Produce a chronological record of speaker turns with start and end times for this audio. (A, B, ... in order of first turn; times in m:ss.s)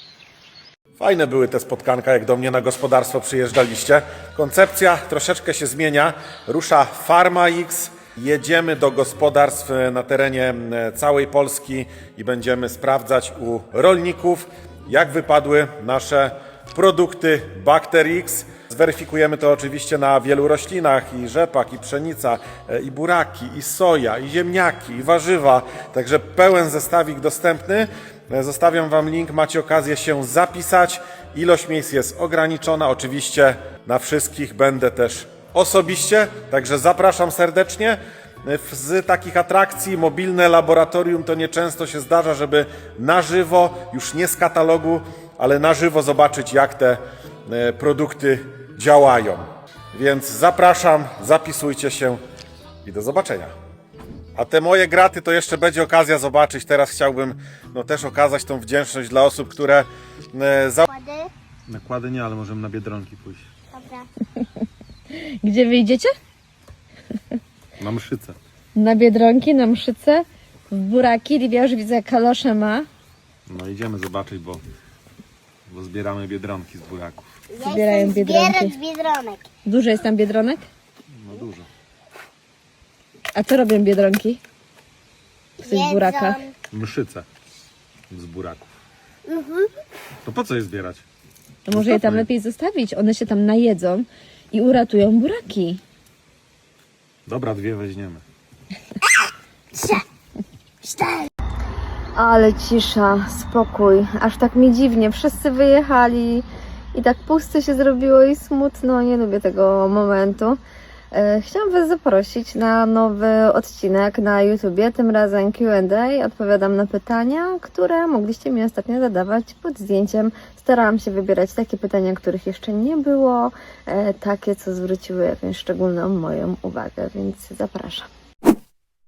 0:01.0-0:52.2 A
0:52.8-0:53.5 A
0:54.4-1:00.9 A
1:00.9-1:01.3 B
1:01.7-1:03.4 A
1:03.7-1:04.1 B
1:05.1-1:06.1 C
1:07.8-1:08.4 A
1:08.8-1:12.9 C
1:13.5-1:14.6 A
1:15.7-1:17.2 A
1:17.5-1:19.4 B
1:17.6-1:18.8 C
1:19.6-1:20.6 C
1:21.2-1:21.7 A
1:23.3-1:24.4 C
1:25.6-1:26.5 B
1:25.6-1:26.4 C
1:26.7-1:27.3 A
1:28.1-1:28.7 A
1:29.3-1:29.7 B
1:30.2-1:31.0 A
1:31.7-1:35.8 C
1:31.7-1:32.3 A
1:37.3-1:38.2 A
1:39.8-1:40.0 B
1:40.8-1:41.3 B
1:42.2-1:50.6 C
1:51.1-2:08.1 C